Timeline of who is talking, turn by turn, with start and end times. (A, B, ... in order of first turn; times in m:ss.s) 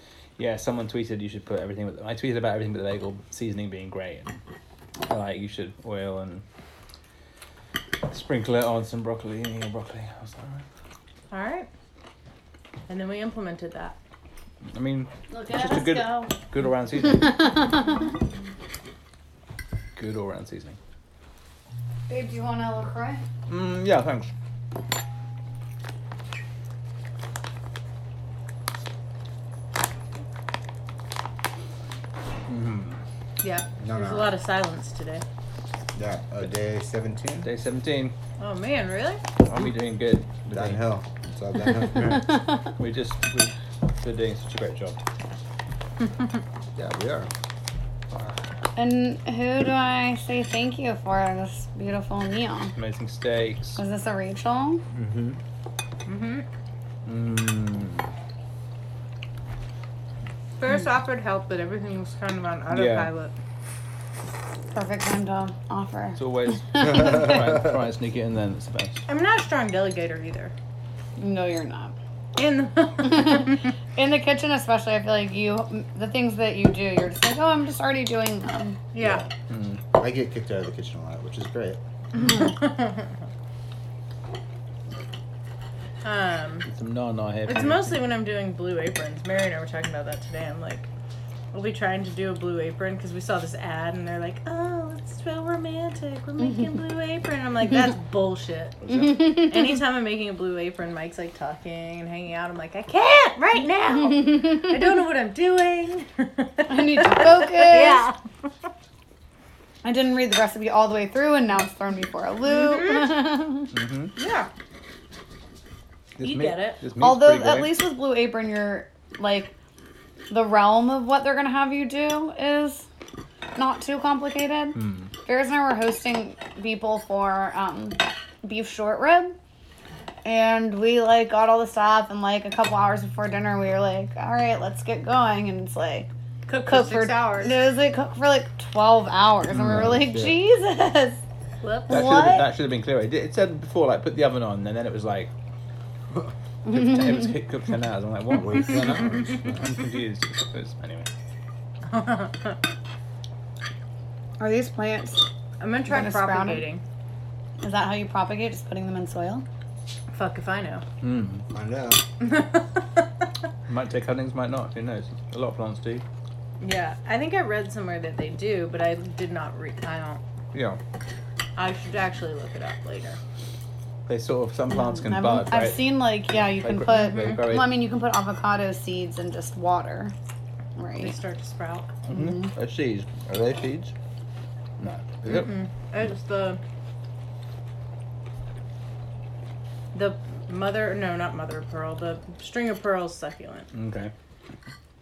0:00.4-0:04.4 A
0:05.0-0:06.4 A
0:08.1-0:10.6 A
0:11.3-0:11.7 B
0:12.9-0:14.0 B
0:14.7-0:17.7 A
0:15.3-0:16.4 C
0:17.1-0:18.0 C
0:20.0-0:20.8 A
0:22.1-0:23.2 C
0:23.5-0:24.3 A
0:32.5-0:33.0 A
0:33.4-0:35.2 B
0:33.8-0:34.4 D
0:35.9-0:37.5 D
0:37.4-0:38.1 A
0:38.4-0:39.2 B
0:39.4-0:40.9 A
0:40.5-0:42.3 D
0:41.9-0:45.0 A
0:42.0-0:42.6 C
0:46.8-0:47.3 D
0:48.8-0:52.8 C
0:52.8-0:53.8 A
0:53.8-0:54.8 C
0:54.9-0:55.4 A
0:56.1-0:56.5 B
0:57.1-0:58.1 A
1:00.6-1:03.4 B
1:02.7-1:03.1 A
1:04.7-1:07.5 C
1:06.2-1:09.0 A
1:09.1-1:10.5 B
1:11.2-1:12.0 C
1:12.4-1:13.7 B
1:13.0-1:18.8 C
1:18.9-1:19.3 B
1:19.0-1:19.3 D
1:19.5-1:19.8 A
1:19.9-1:21.8 D
1:22.2-1:23.1 B
1:26.0-1:26.7 B
1:26.7-1:28.1 A
1:27.5-1:30.9 B
1:31.5-1:48.2 B
1:38.9-1:39.1 A
1:46.7-1:48.1 C
1:49.8-1:53.7 C
1:52.5-1:53.2 B
1:53.7-1:54.2 A
1:54.2-1:54.5 B
1:56.2-1:57.8 A
1:56.2-1:56.8 B
1:57.0-1:59.5 C
2:00.3-2:02.9 C
2:03.6-2:09.4 C
2:04.8-2:05.1 A
2:10.2-2:16.1 C
2:16.5-2:17.7 B
2:16.6-2:21.2 C
2:19.5-2:19.9 A
2:19.6-2:20.4 D
2:21.6-2:22.2 B
2:21.9-2:22.5 C
2:21.9-2:25.3 A
2:26.6-2:27.4 C
2:26.7-2:31.1 A
2:28.3-2:29.8 D
2:31.9-2:32.6 B
2:34.4-2:35.2 C
2:35.6-2:36.8 B
2:35.9-2:36.7 C
2:37.6-2:39.4 C
2:40.1-2:40.8 B
2:41.0-2:41.5 A
2:41.5-2:42.0 D
2:42.2-2:42.8 B
2:43.7-2:46.0 A
2:46.6-2:50.2 B
2:50.5-2:50.8 A
2:51.6-2:53.2 B
2:54.1-2:57.9 A
2:54.7-3:00.1 C
3:00.8-3:01.2 C
3:01.0-3:02.0 B
3:02.1-3:02.5 C
3:02.1-3:03.9 A
3:04.8-3:05.6 A
3:05.3-3:06.6 B
3:09.9-3:13.7 B
3:13.7-3:14.1 A